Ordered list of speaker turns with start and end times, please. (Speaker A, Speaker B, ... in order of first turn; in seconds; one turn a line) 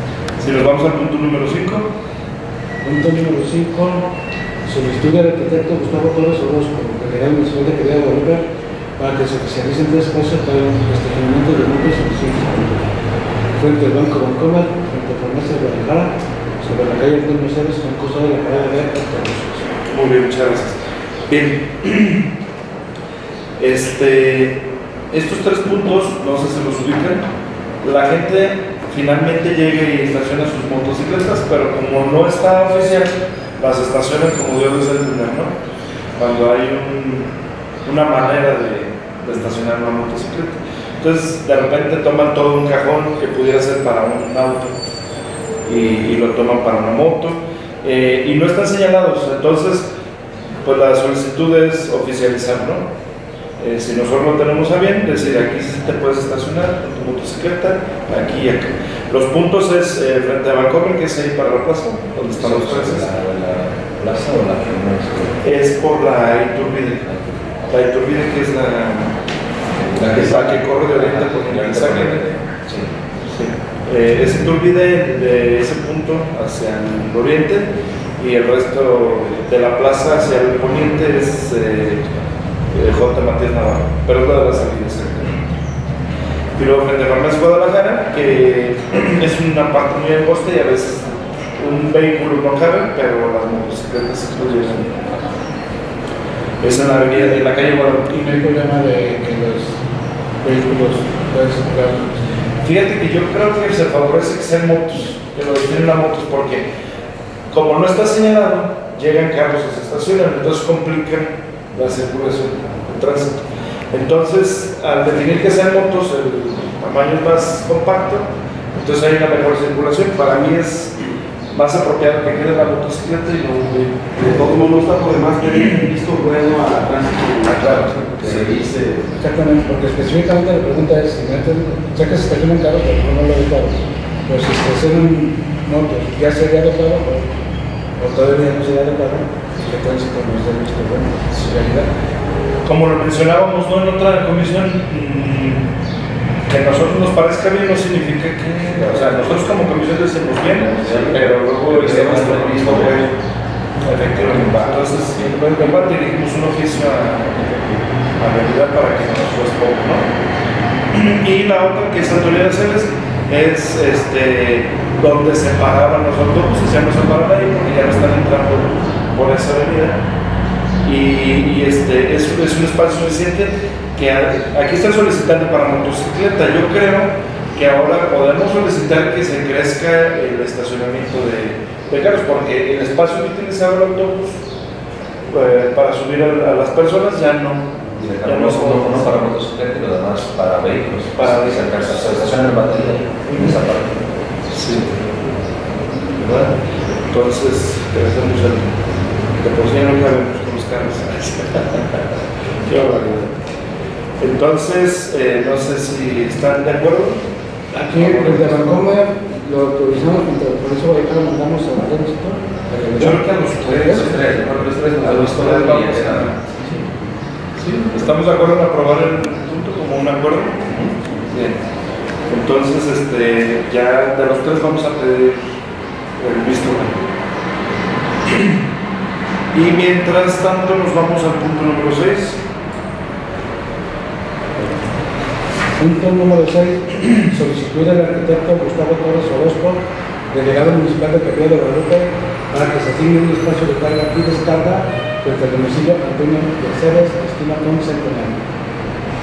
Speaker A: 0.4-1.9
Speaker B: 2.8-4.1
Speaker B: 4.6-8.4
Speaker B: 9.0-12.8
Speaker B: 13.5-19.6
Speaker A: 19.9-20.8
Speaker A: 21.3-22.3
Speaker A: 23.6-27.3
Speaker A: 27.8-35.5
Speaker A: 36.2-37.3
Speaker A: 37.8-44.8
Speaker A: 45.6-49.9
Speaker A: 50.6-52.9
Speaker A: 53.6-63.1
Speaker C: 62.3-65.4
Speaker A: 65.4-67.1
Speaker C: 67.0-67.7
Speaker A: 67.7-69.2
Speaker C: 69.7-72.9
Speaker A: 70.0-72.2
Speaker A: 73.2-77.7
Speaker A: 78.2-82.0
Speaker A: 82.7-85.4
Speaker A: 86.5-95.1
Speaker A: 96.6-98.2
Speaker B: 98.1-99.8
Speaker B: 100.4-102.2
Speaker A: 102.6-106.7
Speaker A: 107.5-113.4
Speaker A: 113.9-120.9
Speaker A: 121.5-124.1
Speaker D: 124.1-129.1
Speaker B: 129.2-137.3
Speaker B: 138.0-141.9
Speaker A: 142.6-145.7
Speaker A: 146.5-153.1
Speaker C: 150.5-151.3
Speaker D: 150.8-153.0
Speaker C: 151.8-152.8
Speaker A: 153.8-157.6
Speaker B: 154.5-155.8
Speaker A: 158.2-160.1
Speaker A: 160.9-170.0
Speaker A: 170.8-184.3
Speaker A: 185.3-189.3
Speaker C: 188.0-194.8
Speaker A: 191.2-192.5
Speaker A: 193.3-193.6
Speaker A: 194.5-194.9
Speaker A: 196.2-196.6
Speaker A: 197.1-198.7
Speaker A: 199.3-202.0
Speaker A: 202.7-203.3
Speaker A: 204.2-207.2
Speaker B: 207.7-214.1
Speaker A: 207.9-208.9
Speaker A: 213.0-216.4
Speaker D: 214.4-216.3
Speaker A: 217.6-220.8
Speaker A: 221.3-221.6
Speaker A: 222.3-225.5
Speaker A: 226.2-227.0
Speaker A: 228.2-228.6
Speaker A: 229.5-232.4
Speaker B: 235.8-239.8
Speaker B: 240.3-248.4